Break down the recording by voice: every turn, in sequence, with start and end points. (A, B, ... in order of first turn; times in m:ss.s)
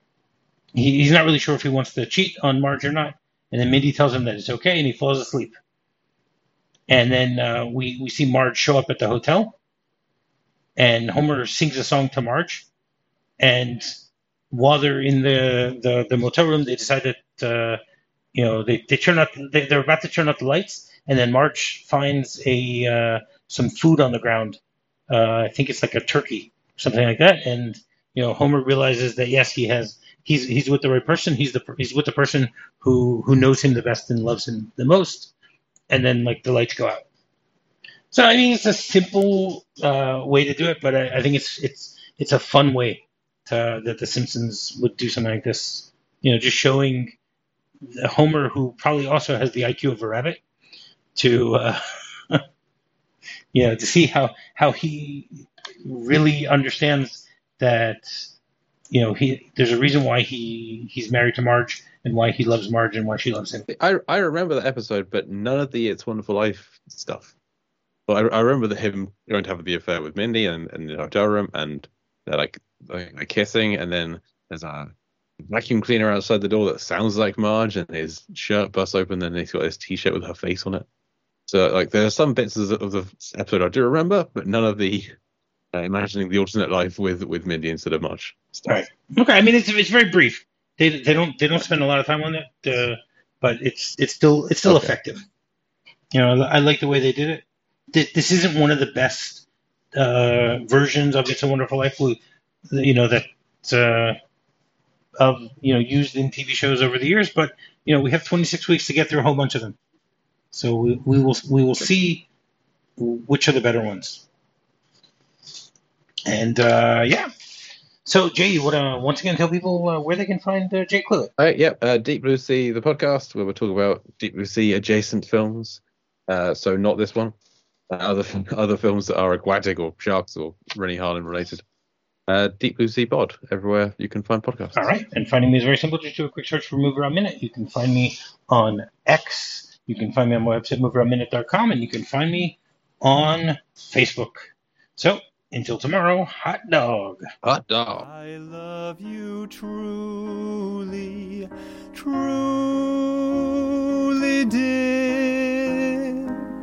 0:00.8-0:05.6 A
0:06.9-0:09.6 A
0:10.8-0:12.7 A
0:13.4-0:14.0 A
0:14.5-0:17.8 A
0:18.3-0:35.3 A
0:35.9-0:37.0 A
0:38.1-0:47.2 A
0:47.9-0:50.4 A
0:51.2-0:52.4 A
0:53.5-0:58.3 A
0:58.9-1:03.7 A
1:03.7-1:07.3 B
1:08.1-1:14.9 B
1:15.4-1:20.9 B
1:21.5-1:25.1 B
1:25.7-1:28.7 B
1:28.7-1:35.2 A
1:34.7-1:34.9 B
1:36.1-1:39.4 A
1:40.0-1:44.2 A
1:45.2-1:49.8 A
1:50.5-1:52.3 A
1:53.0-1:54.2 A
1:56.3-1:57.3 A
1:58.0-2:01.3 A
2:01.4-2:07.4 B
2:07.9-2:11.6 B
2:12.3-2:14.9 B
2:14.7-2:27.2 A
2:27.4-2:28.1 B
2:28.0-2:36.4 C